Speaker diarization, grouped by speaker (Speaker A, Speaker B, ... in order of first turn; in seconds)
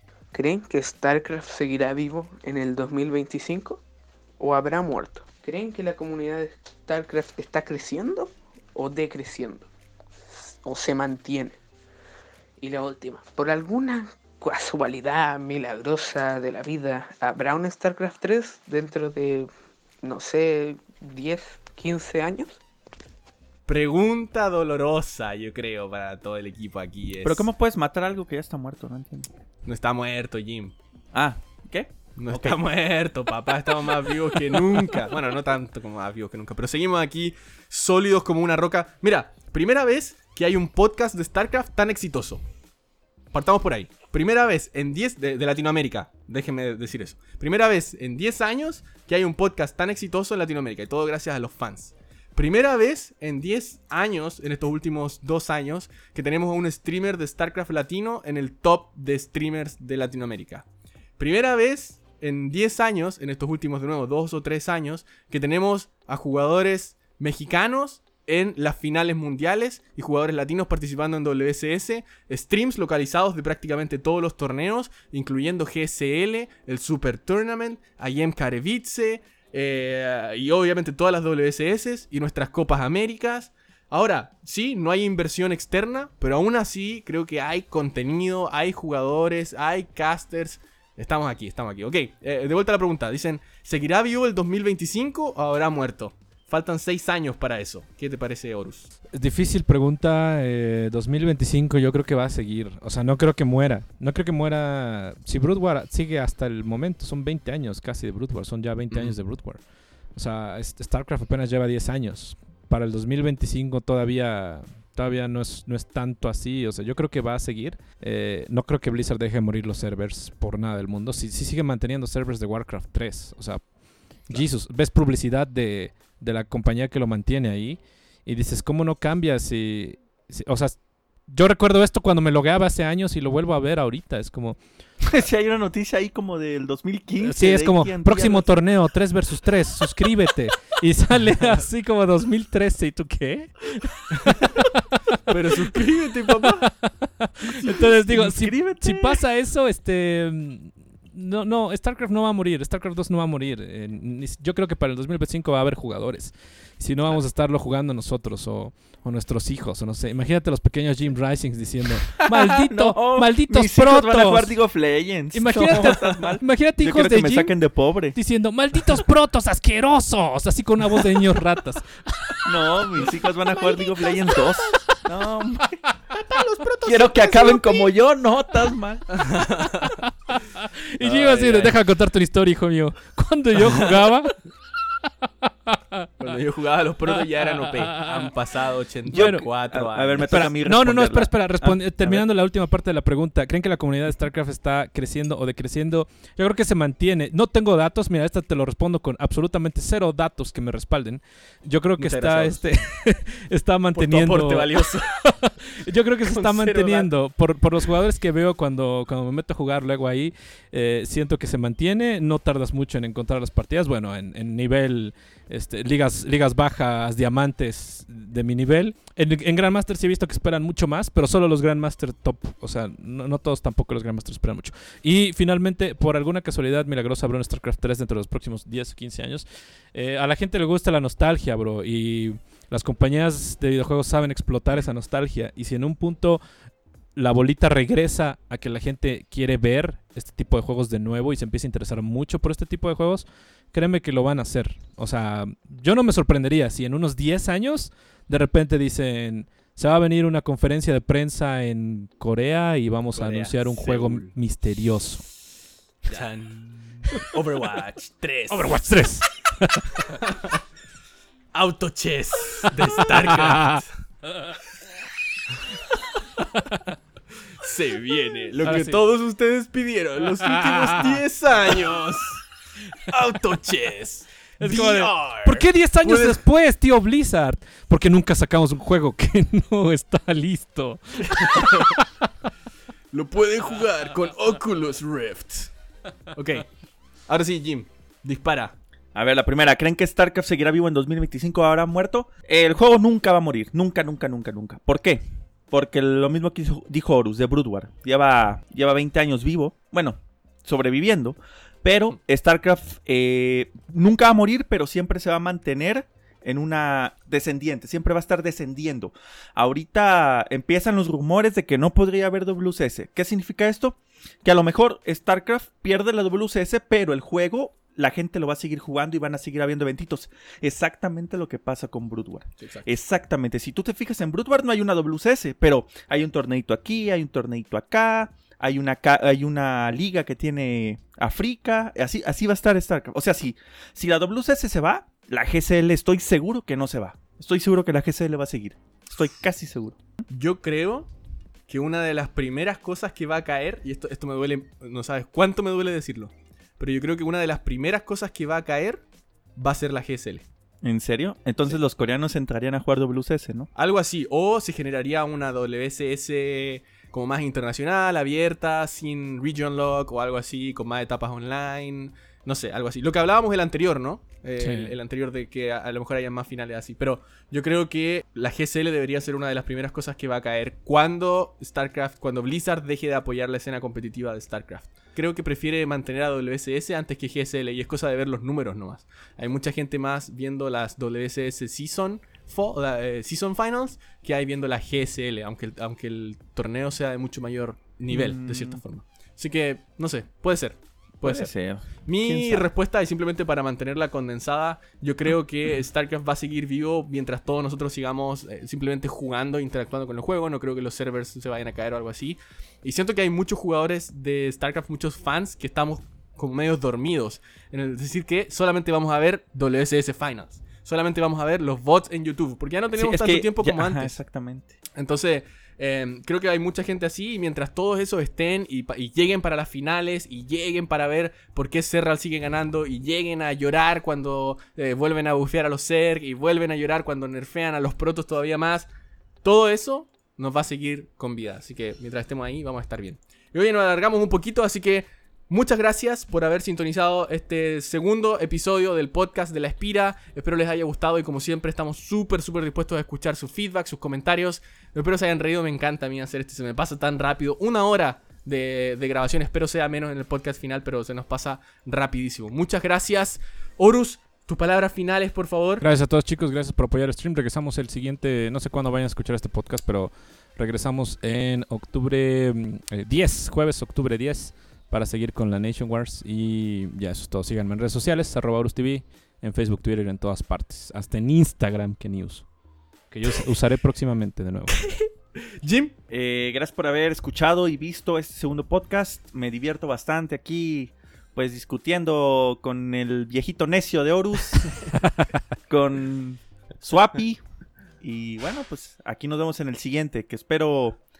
Speaker A: 0.3-3.8, 4.4-9.7, 10.3-11.6, 12.6-19.5, 20.0-22.6
Speaker B: 23.7-27.5, 29.6-30.7, 32.1-42.4, 43.3-60.6, 61.2-98.9, 108.9-109.2, 144.2-144.4, 145.3-146.7, 176.1-177.9, 179.1-180.0, 181.0-181.8, 186.2-190.4, 202.0-202.6, 203.9-205.2, 206.2-207.1, 253.1-254.3, 256.1-259.0, 260.1-260.6, 261.5-263.9, 267.6-272.4, 273.0-276.4, 281.3-281.9, 283.1-285.7, 286.3-286.6, 287.3-288.7, 322.6-322.9, 340.3-341.1, 341.7-349.0, 349.6-350.4, 353.7-391.5, 392.0-414.2, 414.9-428.9, 429.4-455.8, 474.7-475.9
Speaker C: 27.2-29.3, 31.1-32.6, 135.1-138.5, 147.7-149.2, 162.3-168.2, 172.4-175.8, 176.8-179.3, 189.1-192.2, 289.1-340.0, 350.8-353.7, 388.1-388.8, 391.2-392.7, 412.9-414.8, 476.1-484.8, 485.7-487.4, 488.0-491.0
Speaker D: 99.1-134.6, 137.2-144.7, 146.6-164.6, 165.3-172.8, 180.6-184.4, 185.7-186.1, 187.8-188.3, 189.1-189.5, 190.3-236.4, 237.2-255.3, 258.5-260.0, 263.2-263.8, 268.6-269.0, 270.4-271.2, 274.6-282.1, 364.6-364.9, 455.8-472.5, 473.1-474.9